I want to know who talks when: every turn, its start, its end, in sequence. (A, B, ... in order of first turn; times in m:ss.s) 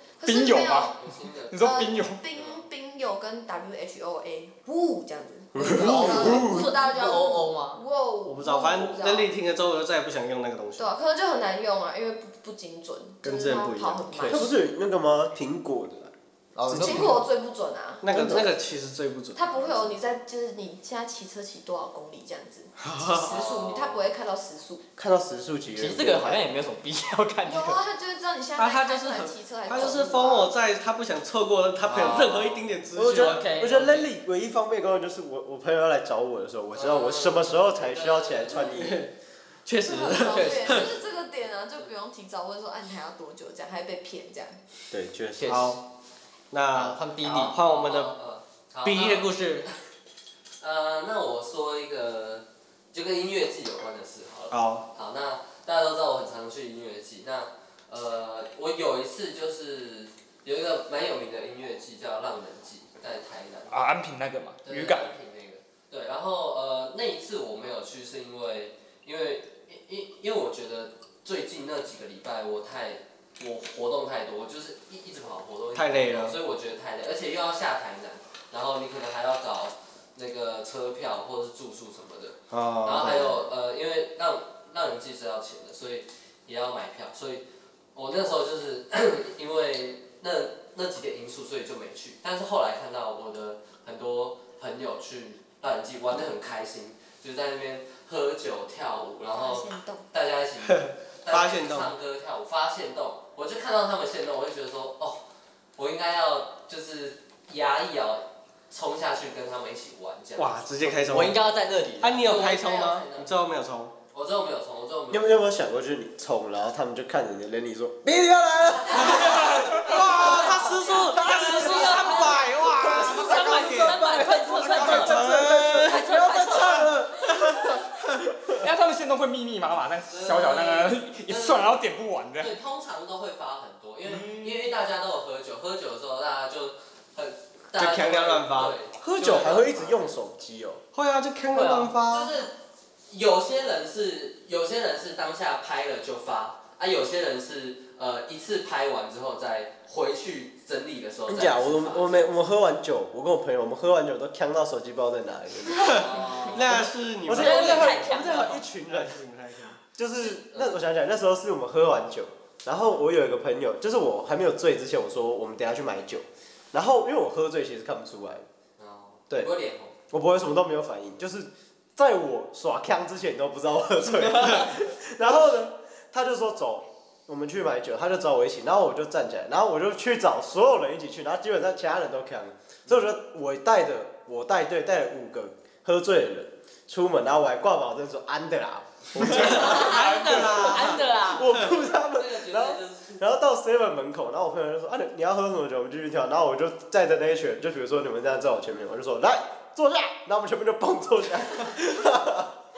0:00.2-0:01.0 A
0:00.2-0:01.0 B
0:01.0-0:02.6 C
0:01.5-0:02.2 B
0:01.6-0:09.3 A
0:05.5-0:06.7 D
0:05.7-0:07.8 E
0:05.8-0:06.3 F
0:08.3-0:10.9 F
0:10.8-0:14.5 A
0:13.2-0:14.5 F
0:14.3-0:17.2 D
0:16.6-0:17.2 E
0:16.7-0:18.1 A
0:18.0-0:20.0 F
0:18.1-0:18.5 D
0:19.3-0:24.8 A
0:22.8-0:23.3 F
0:23.2-0:24.0 C
0:25.0-0:26.5 D
0:25.8-0:27.8 E
0:27.4-0:30.5 A
0:28.6-0:33.4 F
0:31.9-0:32.7 C
0:32.9-0:39.0 D
0:33.1-0:34.1 E
0:36.7-0:38.8 C
0:38.7-0:39.1 F
0:39.6-0:40.9 F
0:39.8-0:44.6 A
0:40.6-0:41.9 C
0:44.9-0:45.8 D
0:45.4-0:45.7 E
0:45.5-0:45.8 F
0:46.5-0:48.1 F
0:46.7-0:47.6 E
0:47.2-0:49.4 C
0:48.8-0:49.7 F
0:50.6-1:03.8 C
0:54.5-0:54.8 F
1:03.7-1:05.1 B
1:04.6-1:45.2 C
1:15.7-1:16.4 F
1:22.5-1:23.3 F
1:39.3-1:40.0 A
1:40.6-1:41.9 F
1:45.8-1:50.7 C
1:50.4-1:51.4 F
1:51.0-1:52.3 E
1:52.0-1:53.9 F
1:52.2-1:53.3 C
1:54.1-1:55.6 C
1:55.1-1:59.8 D
1:58.9-2:08.0 F
1:59.2-2:00.0 B
2:00.1-2:00.8 C
2:00.1-2:06.9 E
2:01.1-2:07.8 D
2:08.5-2:12.5 B
2:10.1-2:11.8 C
2:12.4-2:20.1 C
2:14.1-2:14.5 B
2:17.8-2:18.7 F
2:19.0-2:20.8 D
2:20.9-2:22.3 F
2:21.5-2:22.0 E
2:22.0-2:22.5 C
2:23.1-2:32.3 C
2:31.3-2:36.2 D
2:35.8-2:36.8 C
2:35.8-2:39.8 F
2:36.7-2:39.2 D
2:37.3-2:38.6 E
2:39.9-2:48.4 D
2:40.2-2:40.8 C
2:48.8-2:49.9 C
2:50.1-3:10.0 D
3:09.2-3:10.7 B
3:09.2-3:11.7 F
3:09.6-3:11.6 E
3:11.0-3:22.5 D
3:11.7-3:13.2 C